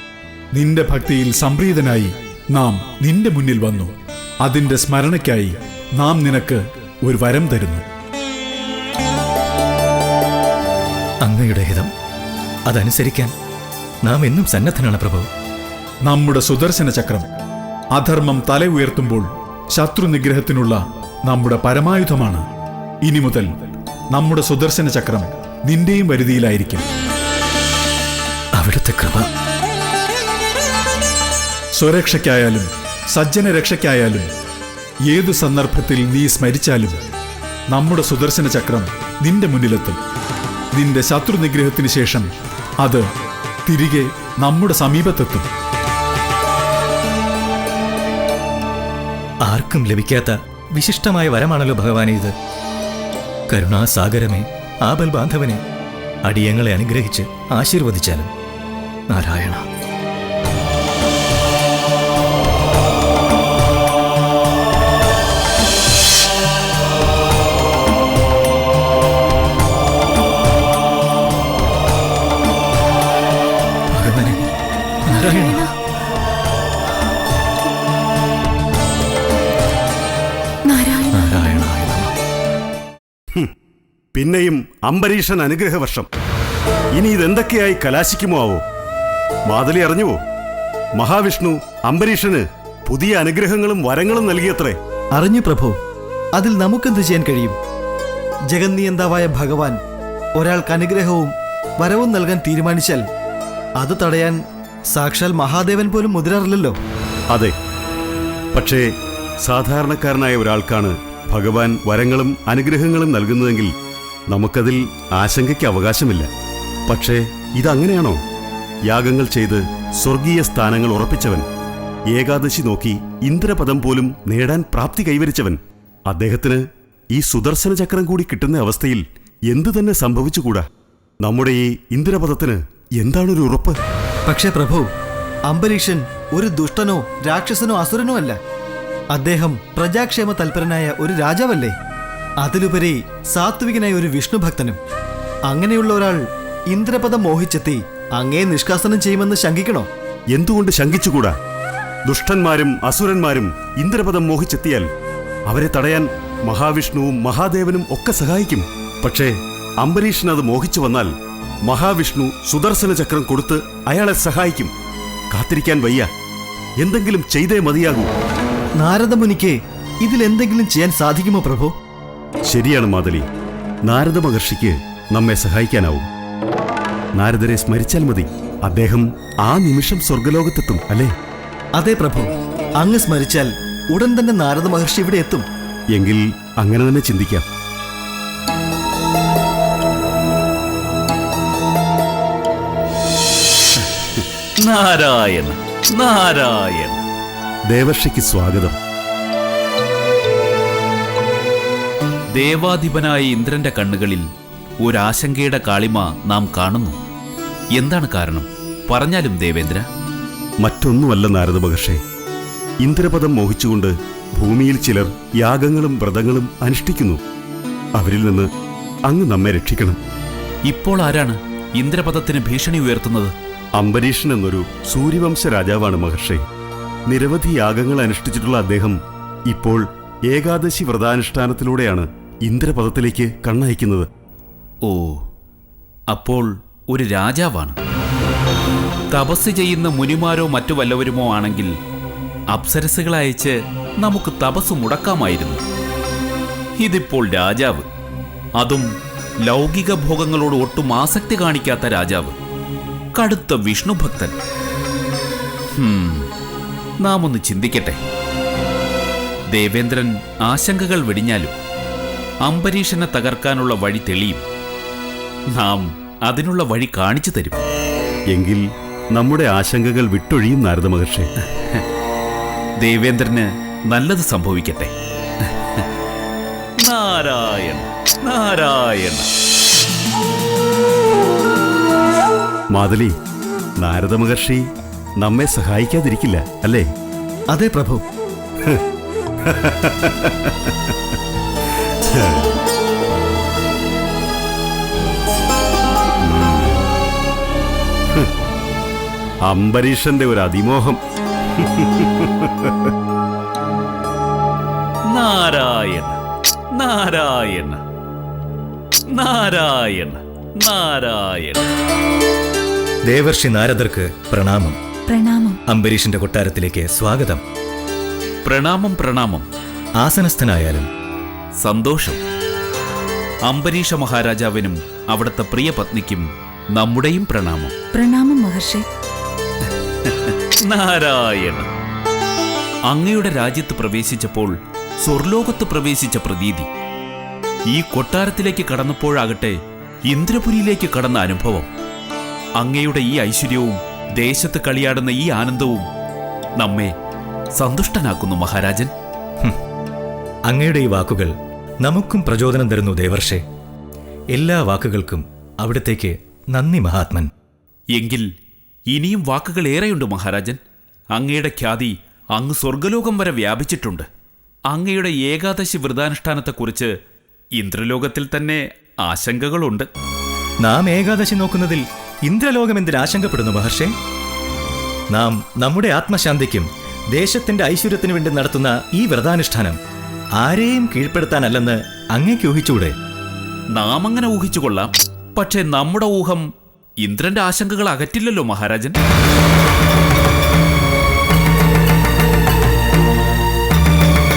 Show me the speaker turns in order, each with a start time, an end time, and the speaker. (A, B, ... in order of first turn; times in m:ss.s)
0:00.5-0:07.8 A
0:11.2-0:11.9 B
0:12.7-0:13.3 B
0:14.0-0:15.3 B
0:16.0-0:17.3 A
0:17.9-0:22.4 A
0:23.0-0:23.5 A
0:24.1-0:26.8 A
0:28.6-0:29.2 B
0:31.8-0:34.3 A
0:35.1-0:37.0 A
0:37.7-0:40.0 A
0:40.7-0:42.3 A
0:43.7-0:45.4 A
0:49.4-0:52.3 B
0:53.5-0:55.6 B
0:56.2-0:58.3 B
0:59.1-0:59.6 B
1:13.9-1:14.4 B
1:15.0-1:15.7 B
1:15.1-1:15.7 C
1:20.6-1:21.7 C
1:21.1-1:22.1 B
1:24.1-1:26.1 D
1:27.0-1:28.6 D
1:29.5-1:30.2 D
1:31.0-1:34.8 D
1:35.1-1:35.8 E
1:36.3-1:37.6 E
1:38.5-1:39.8 E
1:40.4-1:43.0 E
1:43.8-1:44.4 E
1:44.9-1:46.8 E
1:48.5-1:48.9 D
1:49.4-1:53.7 D
1:54.3-1:56.3 D
1:56.9-1:58.2 D
1:58.9-2:01.4 D
2:02.1-2:06.6 D
2:07.1-2:10.6 D
2:11.2-2:13.8 D
2:14.3-2:14.9 E
2:15.4-2:18.4 E
2:19.1-2:21.7 E
2:22.4-2:24.8 E
2:25.5-2:29.9 E
2:30.3-2:31.3 D
2:32.1-2:34.9 D
2:35.5-2:41.1 D
2:41.6-2:44.7 D
2:45.3-2:46.1 D
2:46.8-2:48.1 D
2:48.8-2:51.7 E
2:52.5-2:53.2 D
2:53.8-2:56.1 D
2:57.2-3:01.1 D
3:01.7-3:05.4 E
3:05.9-3:07.4 D
3:14.6-3:17.0 F
3:17.7-3:18.8 D
3:22.3-3:24.2 F
3:24.8-3:27.0 F
3:27.8-3:29.9 F
3:30.6-3:32.0 D
3:32.8-3:37.2 D
3:38.0-3:38.5 D
3:39.1-3:40.0 D
3:40.6-3:43.3 F
3:43.8-3:46.4 D
3:47.1-3:54.1 D
3:54.8-3:55.2 F
3:56.1-3:57.8 F
3:59.1-4:01.7 F
4:02.5-4:05.6 F
4:06.8-4:07.8 F
4:08.6-4:08.9 F
4:09.4-4:12.3 F
4:13.1-4:14.3 F
4:15.8-4:16.3 F
4:17.0-4:18.0 F
4:19.5-4:21.5 F
4:22.4-4:24.4 F
4:25.5-4:27.6 F
4:28.3-4:31.3 D
4:32.8-4:34.9 F
4:35.4-4:35.8 F
4:36.8-4:39.3 F
4:42.7-4:43.1 D
4:43.8-4:44.6 D
4:45.2-4:46.9 D
4:47.5-4:48.0 E
4:49.4-4:50.9 D
4:52.1-4:52.5 D
4:56.2-4:56.7 D
4:59.4-5:01.0 D
5:01.6-5:02.7 D
5:05.1-5:06.2 F
5:06.7-5:07.8 F
5:09.1-5:11.7 F
5:13.1-5:14.8 B
5:15.1-5:15.6 C
5:15.7-5:17.4 B
5:18.4-5:19.5 F
5:20.0-5:20.9 B
5:21.6-5:22.2 F
5:23.4-5:27.7 F
5:27.9-5:28.8 C
5:30.0-5:31.7 F
5:32.9-5:34.5 F
5:35.0-5:36.7 F
5:37.7-5:39.6 F
5:40.1-5:41.7 F
5:42.6-5:45.9 F
5:46.6-5:46.9 F
5:47.6-5:48.9 F
5:50.5-5:51.3 B
5:51.8-5:53.4 B
5:54.3-5:57.3 B
5:57.9-5:58.3 F
5:58.9-6:00.6 F
6:01.1-6:04.1 F
6:04.7-6:06.9 F
6:07.6-6:09.9 F
6:10.6-6:13.9 B
6:15.1-6:19.8 B
6:20.4-6:22.9 B
6:23.7-6:26.4 F
6:27.0-6:29.0 F